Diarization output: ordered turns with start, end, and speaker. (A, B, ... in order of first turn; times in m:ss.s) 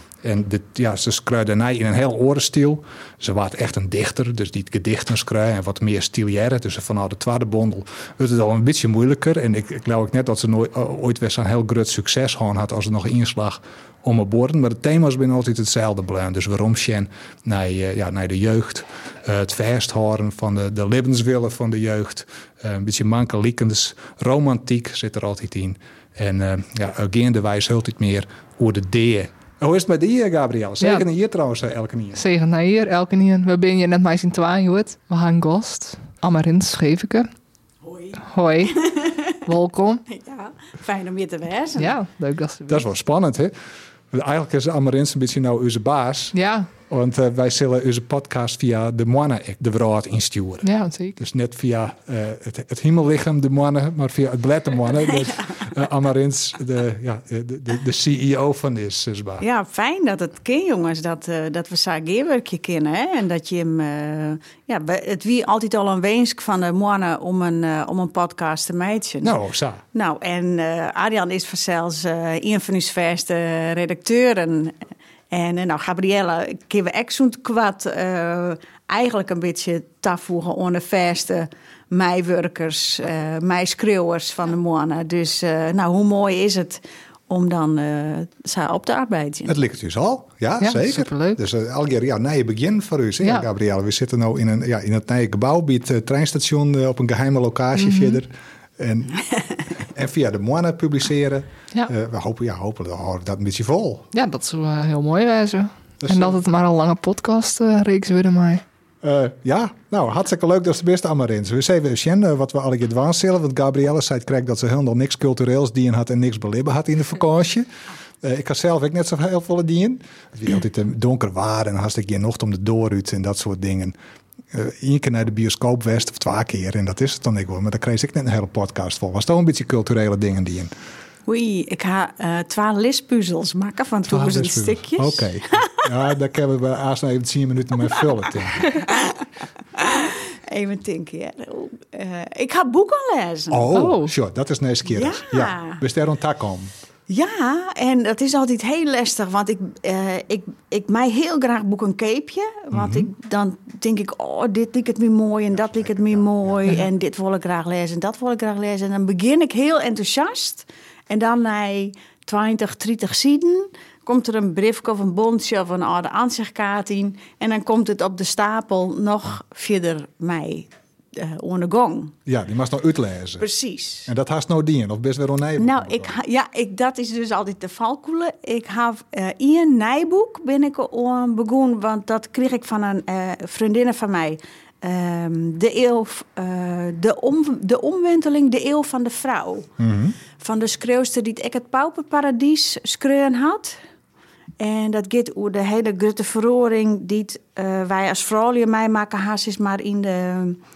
0:00.2-0:32.2 A
0:30.8-0:31.0 B
0:32.1-0:37.3 B
0:37.8-0:39.1 C
0:38.2-0:40.0 B
0:40.1-0:42.0 C
0:41.8-0:42.8 B
0:42.7-0:43.5 A
0:44.1-0:46.3 A
0:46.3-0:46.7 B
0:46.9-0:59.4 A
0:50.6-0:51.2 B
0:59.4-1:09.3 C
1:09.2-1:09.8 A
1:09.9-1:14.8 C
1:15.3-1:29.5 C
1:29.5-1:39.3 A
1:30.6-1:31.4 B
1:37.8-1:38.2 B
1:39.8-1:44.1 A
1:44.1-1:48.6 B
1:46.0-1:46.4 A
1:49.0-1:57.7 A
1:58.2-2:04.0 A
2:04.5-2:10.7 A
2:11.3-2:15.8 C
2:14.1-2:18.7 A
2:18.9-2:19.2 C
2:19.7-2:23.7 C
2:23.5-2:26.7 A
2:23.7-2:24.1 B
2:24.9-2:25.8 C
2:27.1-2:52.1 C
2:32.7-2:33.1 A
2:35.7-2:36.5 A
2:52.2-2:53.5 A
2:53.4-2:54.1 C
2:54.0-2:56.1 A
2:55.6-3:09.7 C
3:09.8-3:10.2 A
3:10.4-3:13.8 C
3:14.6-3:20.6 C